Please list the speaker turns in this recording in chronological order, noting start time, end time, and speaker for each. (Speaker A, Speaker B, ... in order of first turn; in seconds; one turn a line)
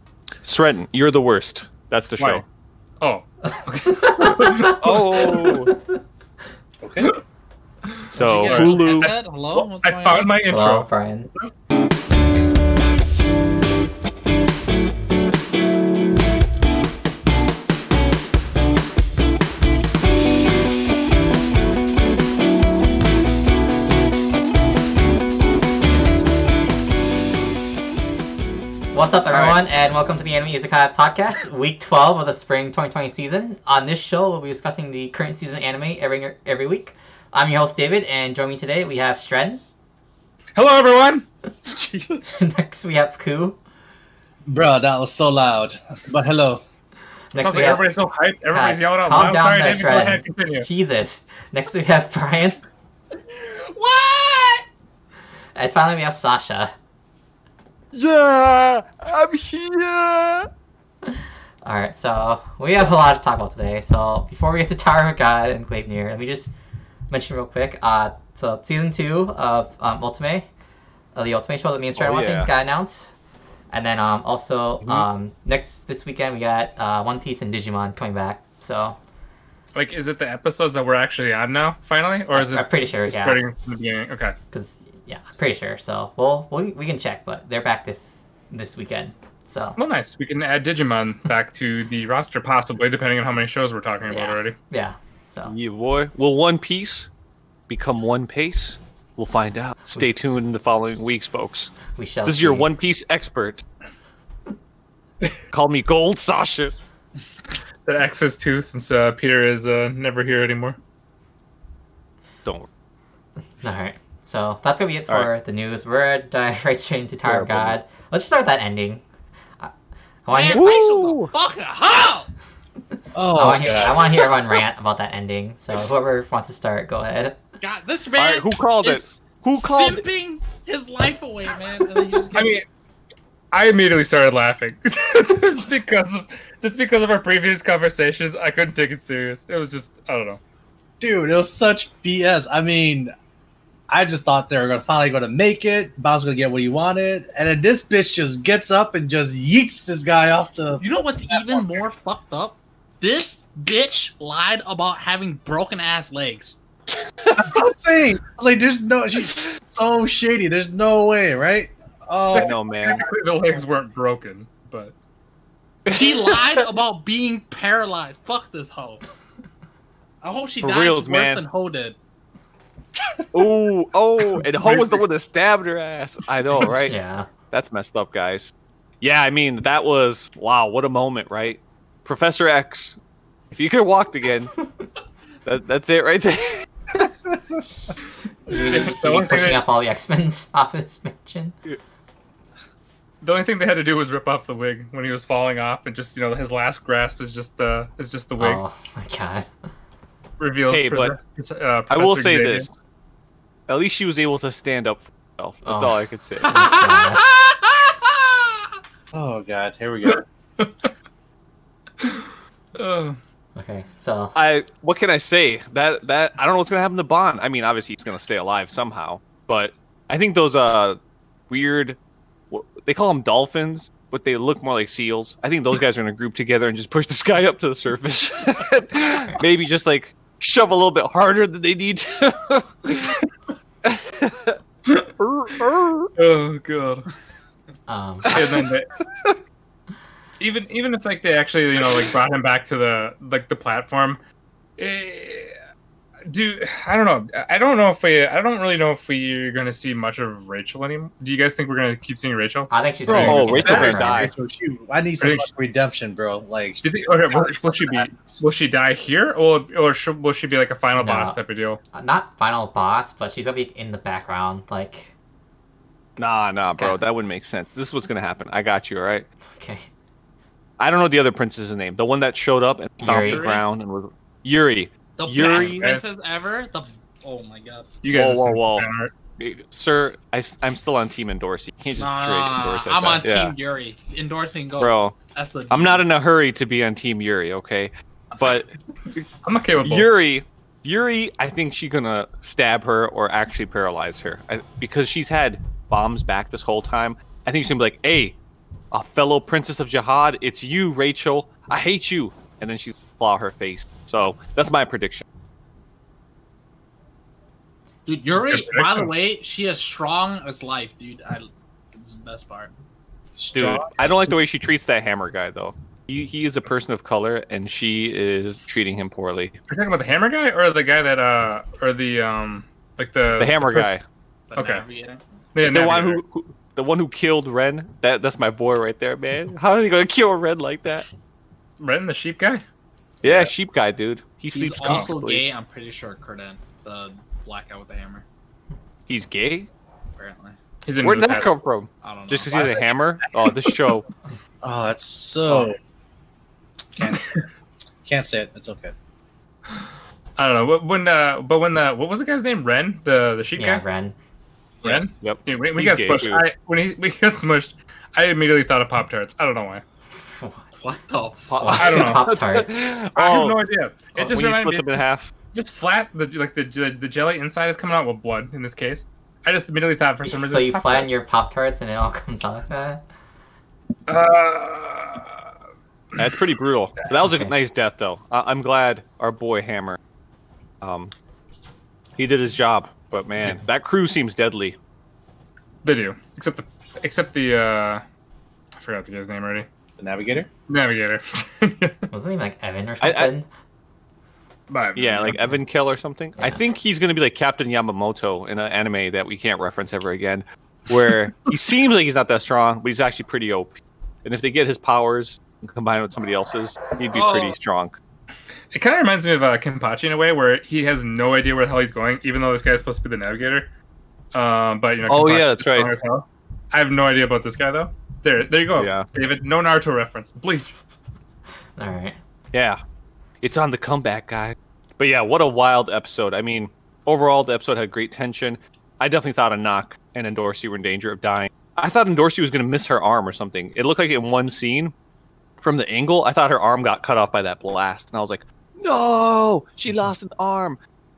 Speaker A: 0.4-2.4
Speaker B: 2.2-2.5
Speaker B: 3.0-5.4
Speaker C: 3.9-4.7
Speaker A: 4.7-5.7
Speaker C: 5.4-5.8
Speaker D: 6.8-7.1
Speaker B: 8.0-11.5
Speaker A: 8.1-9.1
Speaker E: 8.2-10.4
Speaker C: 10.5-11.3
Speaker C: 28.9-39.6
Speaker B: 29.3-29.6
Speaker B: 40.6-41.3
Speaker C: 42.2-43.6
Speaker D: 44.5-46.6
Speaker C: 47.3-47.9
Speaker B: 47.4-50.7
Speaker C: 48.5-52.6
Speaker E: 53.4-54.7
Speaker C: 55.5-56.7
Speaker A: 57.9-60.5
Speaker C: 61.1-66.5
Speaker C: 67.1-70.5
Speaker C: 71.2-73.1
Speaker A: 72.0-72.5
Speaker C: 73.7-79.0
Speaker B: 79.7-84.3
Speaker C: 82.3-83.4
Speaker C: 84.5-89.8
Speaker B: 89.8-94.6
Speaker C: 94.1-95.5
Speaker A: 95.5-97.1
Speaker A: 97.7-101.7
Speaker C: 102.0-102.7
Speaker A: 102.2-103.6
Speaker A: 105.5-106.8
Speaker B: 107.9-110.8
Speaker C: 113.6-119.0
Speaker A: 117.2-117.8
Speaker C: 120.2-121.1
Speaker E: 120.3-122.3
Speaker A: 120.5-121.3
Speaker D: 123.1-124.1
Speaker C: 123.3-127.4
Speaker E: 127.6-132.6
Speaker A: 128.2-130.1
Speaker B: 132.3-132.7
Speaker B: 133.5-140.4
Speaker D: 141.0-143.1
Speaker D: 143.9-151.6
Speaker E: 150.8-156.6
Speaker D: 157.3-162.5
Speaker B: 162.3-164.9
Speaker A: 162.4-163.0
Speaker A: 165.9-166.5
Speaker E: 165.9-169.0
Speaker E: 170.2-172.0
Speaker A: 170.6-171.4
Speaker A: 173.3-176.9
Speaker B: 174.6-175.1
Speaker C: 176.9-177.3
Speaker A: 177.5-183.0
Speaker A: 183.5-184.6
Speaker A: 185.4-187.1
Speaker C: 188.5-191.6
Speaker B: 188.5-189.6
Speaker B: 193.2-198.6
Speaker C: 198.4-199.5
Speaker B: 200.4-202.7
Speaker A: 200.7-201.2
Speaker A: 201.9-202.7
Speaker A: 203.7-206.6
Speaker C: 205.6-207.2
Speaker E: 206.4-208.5
Speaker D: 209.1-210.2
Speaker B: 210.1-210.9
Speaker B: 212.0-213.2
Speaker C: 213.6-214.4
Speaker A: 214.3-222.0
Speaker A: 222.5-233.2
Speaker A: 233.8-234.6
Speaker A: 235.2-236.1
Speaker B: 236.2-237.1
Speaker C: 237.9-238.6
Speaker B: 238.3-239.0
Speaker B: 240.4-244.2
Speaker B: 244.8-245.6
Speaker B: 246.3-253.6
Speaker C: 252.7-254.3
Speaker D: 253.1-258.4
Speaker A: 253.1-254.3
Speaker B: 255.2-255.5
Speaker B: 256.8-261.8
Speaker C: 260.9-261.4
Speaker C: 261.9-265.1
Speaker A: 266.2-269.3
Speaker C: 266.7-267.0
Speaker C: 269.6-269.9
Speaker A: 270.8-275.9
Speaker C: 273.0-273.5
Speaker E: 273.1-273.6
Speaker E: 275.2-278.0
Speaker B: 275.5-276.1
Speaker B: 278.0-279.1
Speaker A: 278.1-283.6
Speaker E: 282.0-286.0
Speaker A: 284.8-285.2
Speaker A: 285.7-289.2
Speaker B: 289.4-290.1
Speaker A: 289.8-298.4
Speaker A: 298.9-305.2
Speaker E: 308.1-312.7
Speaker B: 308.4-309.1
Speaker D: 313.4-314.4
Speaker A: 313.5-319.6
Speaker B: 319.7-324.0
Speaker A: 323.4-324.0
Speaker E: 324.5-325.2
Speaker B: 324.6-324.9
Speaker B: 325.6-326.2
Speaker A: 325.6-331.1
Speaker B: 331.8-332.6
Speaker A: 333.2-335.5
Speaker E: 334.5-338.2
Speaker B: 334.8-335.1
Speaker A: 339.1-339.7
Speaker E: 340.2-340.6
Speaker B: 340.8-341.5
Speaker A: 341.0-344.1
Speaker E: 342.0-342.9
Speaker D: 344.6-345.8
Speaker D: 347.0-347.2
Speaker B: 347.0-347.4
Speaker D: 348.1-348.9
Speaker B: 350.4-353.9
Speaker C: 353.6-354.1
Speaker B: 354.8-359.8
Speaker A: 355.1-356.4
Speaker C: 360.3-360.6
Speaker E: 360.8-361.8
Speaker A: 361.5-363.6
Speaker C: 361.5-362.8
Speaker B: 361.8-362.2
Speaker B: 363.1-371.1
Speaker A: 364.1-365.3
Speaker C: 370.2-373.0
Speaker B: 374.1-375.4
Speaker A: 376.2-380.0
Speaker C: 377.2-377.5
Speaker A: 380.8-381.1
Speaker A: 382.2-384.8
Speaker B: 385.8-388.0
Speaker B: 388.8-389.7
Speaker D: 390.0-390.5
Speaker B: 390.7-392.0
Speaker C: 392.1-393.5
Speaker A: 393.0-393.3
Speaker B: 394.7-395.5
Speaker A: 395.0-408.0
Speaker E: 407.1-407.6
Speaker B: 408.7-413.7
Speaker B: 414.3-420.8
Speaker A: 415.1-415.9
Speaker A: 418.8-419.1
Speaker C: 421.8-422.2
Speaker A: 422.5-422.8
Speaker A: 423.4-434.9
Speaker A: 435.6-440.8